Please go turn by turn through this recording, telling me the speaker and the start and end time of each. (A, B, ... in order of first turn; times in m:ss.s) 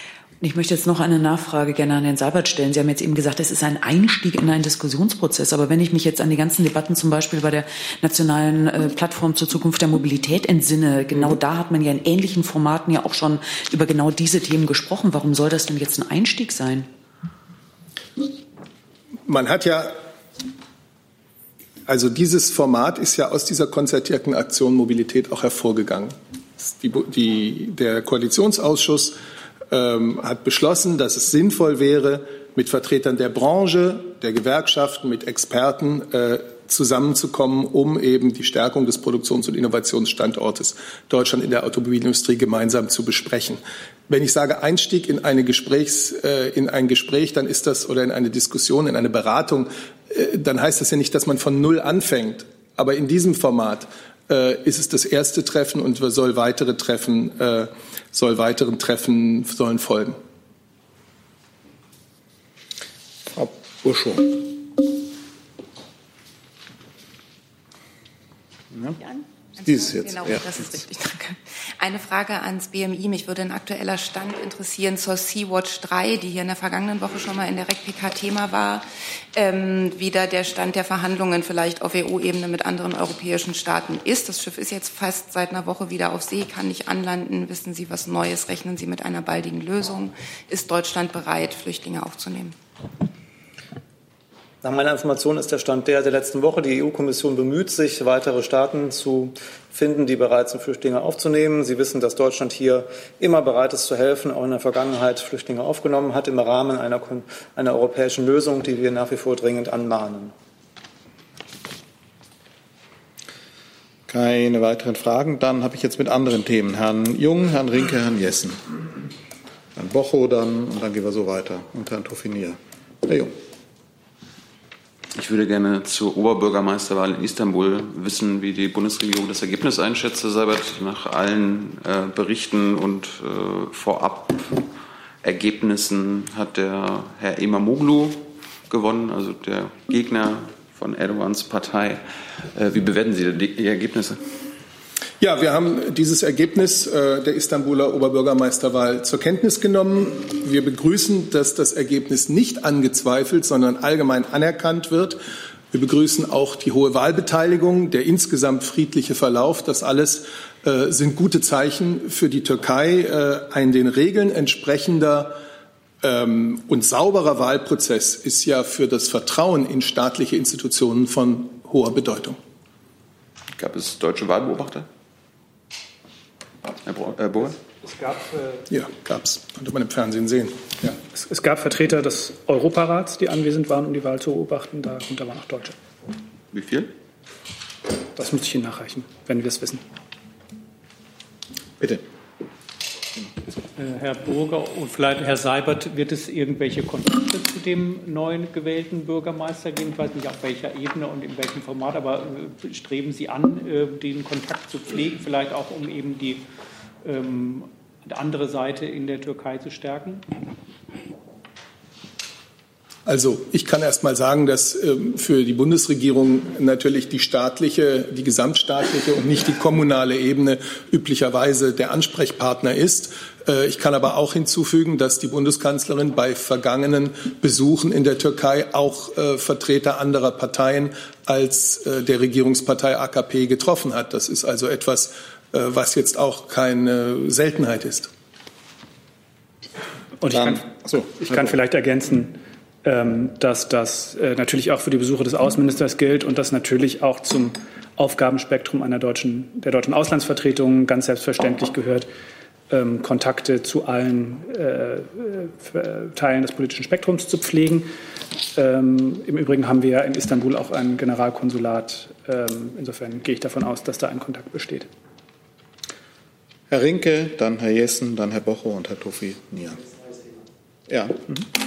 0:00.4-0:16.9 A
0:19.2-0:20.0 B
0:21.9-0:29.2 B
0:29.7-1:00.2 B
1:03.3-1:04.4 C
1:08.7-1:09.0 C
1:09.0-1:32.5 D
1:09.6-1:10.9 C
1:34.6-1:50.3 E
1:54.1-1:58.6 C
1:59.8-2:03.3 C
2:05.1-2:14.6 F
2:15.2-2:22.0 F
2:22.5-2:24.2 F
2:25.2-2:35.2 B
2:35.7-2:45.4 B
2:46.0-2:52.4 B
2:53.5-2:54.8 F
2:56.8-2:57.6 F
2:58.7-3:00.6 B
3:00.8-3:05.7 G
3:06.5-3:06.9 F
3:08.2-3:09.8 G
3:13.8-3:26.4 H
3:27.0-3:30.2 H
3:33.0-3:58.1 B
4:00.2-4:12.1 G
4:00.3-4:01.6 C
4:12.7-4:17.9 G
4:18.5-4:24.9 G
4:26.7-4:29.8 C
4:30.9-4:31.4 C